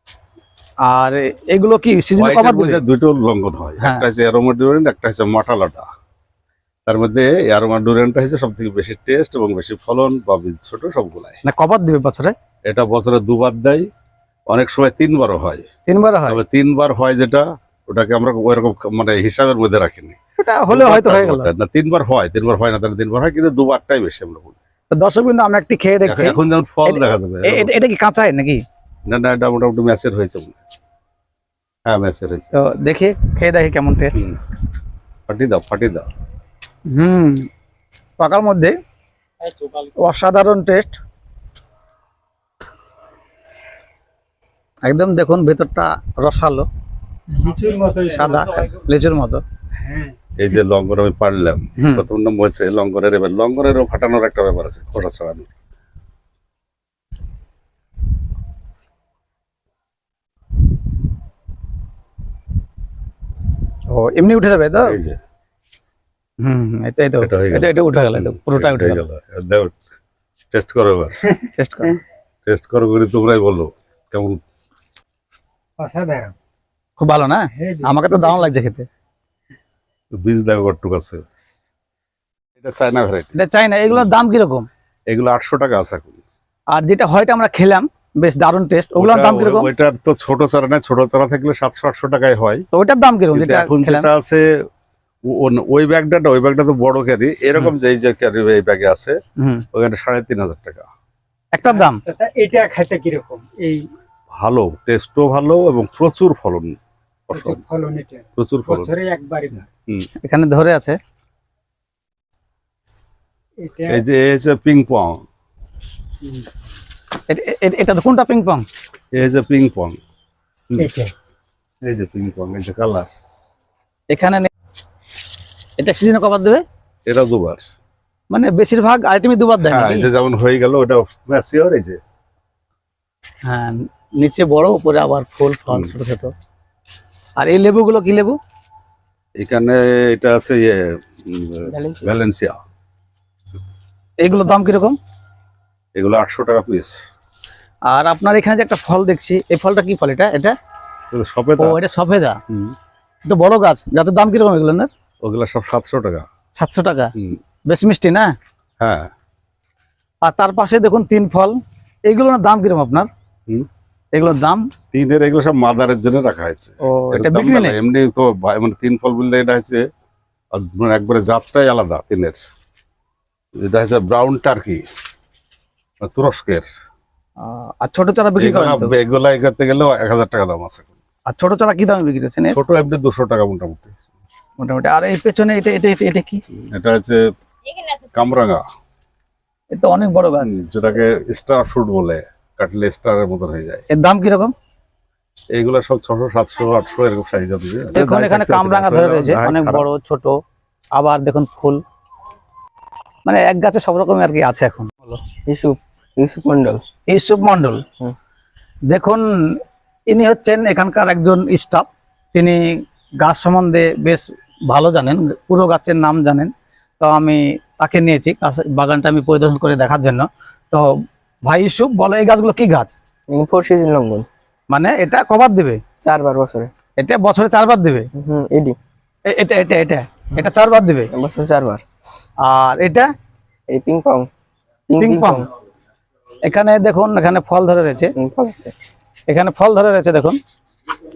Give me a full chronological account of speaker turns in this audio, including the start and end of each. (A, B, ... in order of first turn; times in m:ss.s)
0:00.8-0:02.8 A
0:02.2-0:05.9 B
0:06.8-0:11.4 B
0:11.4-0:12.3 A
0:12.7-0:13.9 B
0:14.5-0:15.6 B
0:15.9-0:16.4 A
0:16.3-0:20.2 B
0:20.4-0:21.5 A
0:20.7-0:24.6 B
0:24.9-0:28.6 A
0:26.0-0:27.7 B
0:29.0-0:30.6 B
0:31.8-0:32.5 B
0:32.5-0:34.1 A
0:35.3-0:36.1 B
0:36.9-0:37.5 A
0:38.2-0:38.8 A
0:39.8-0:41.0 A
0:44.8-0:46.6 A
0:47.3-0:48.4 C
0:48.1-0:49.4 A
0:49.8-0:50.1 C
0:50.4-0:55.5 B
0:51.8-0:52.0 A
1:03.9-1:04.9 A
1:04.8-1:05.2 B
1:06.4-1:09.0 A
1:07.2-1:09.7 B
1:10.5-1:11.2 B
1:11.6-1:12.0 A
1:12.4-1:14.4 B
1:15.8-1:16.3 C
1:17.0-1:18.8 A
1:17.6-1:17.9 C
1:20.1-1:21.2 B
1:22.6-1:23.4 B
1:23.4-1:24.7 A
1:25.1-1:26.2 B
1:26.7-1:29.7 A
1:29.0-1:32.6 B
1:32.7-1:34.1 A
1:33.3-1:34.6 B
1:35.3-1:39.1 B
1:39.4-1:39.6 A
1:39.7-1:40.9 B
1:41.5-1:42.0 A
1:41.8-1:43.9 C
1:44.4-1:47.6 B
1:47.3-1:49.6 C
1:48.4-1:48.9 B
1:50.2-1:51.0 A
1:53.6-1:54.0 C
1:53.9-1:55.2 B
1:57.3-1:58.6 A
1:59.1-2:00.0 B
2:00.8-2:01.1 C
2:01.8-2:03.1 B
2:04.1-2:04.5 A
2:05.8-2:06.6 A
2:07.0-2:07.7 B
2:08.3-2:10.1 A
2:09.7-2:12.0 B
2:13.4-2:16.3 A
2:17.4-2:18.4 A
2:19.4-2:22.6 B
2:21.7-2:22.2 D
2:24.2-2:25.0 A
2:25.9-2:27.0 B
2:27.9-2:30.5 A
2:31.1-2:31.8 B
2:31.6-2:32.4 A
2:33.2-2:34.9 A
2:35.2-2:36.2 B
2:36.5-2:37.1 A
2:37.7-2:38.3 A
2:38.8-2:39.1 B
2:40.2-2:41.5 A
2:42.1-2:43.1 A
2:44.1-2:44.6 A
2:44.9-2:49.8 B
2:46.8-2:47.8 A
2:50.5-2:52.4 B
2:53.6-2:54.8 B
2:56.0-2:56.7 B
2:57.4-2:59.0 A
2:58.4-3:00.9 B
3:01.3-3:02.6 A
3:02.5-3:04.0 B
3:04.6-3:06.4 A
3:06.7-3:08.6 B
3:09.7-3:10.5 A
3:10.4-3:13.8 B
3:13.9-3:14.5 A
3:15.5-3:19.9 B
3:17.9-3:20.4 A
3:20.9-3:21.8 A
3:23.2-3:25.2 A
3:25.4-3:26.8 D
3:27.1-3:27.8 A
3:28.9-3:32.6 A
3:33.2-3:40.8 A
3:41.4-3:42.9 A
3:43.3-3:44.3 D
3:44.7-3:45.8 A
3:46.0-3:46.7 D
3:47.0-3:48.1 A
3:48.2-3:48.8 D
3:49.3-3:51.1 A
3:51.1-3:51.8 D
3:52.4-3:53.1 A
3:53.7-3:54.3 D
3:54.9-3:55.4 D
3:55.0-3:55.4 A
3:56.4-3:58.1 A
3:58.2-3:58.7 D
3:59.3-4:00.4 A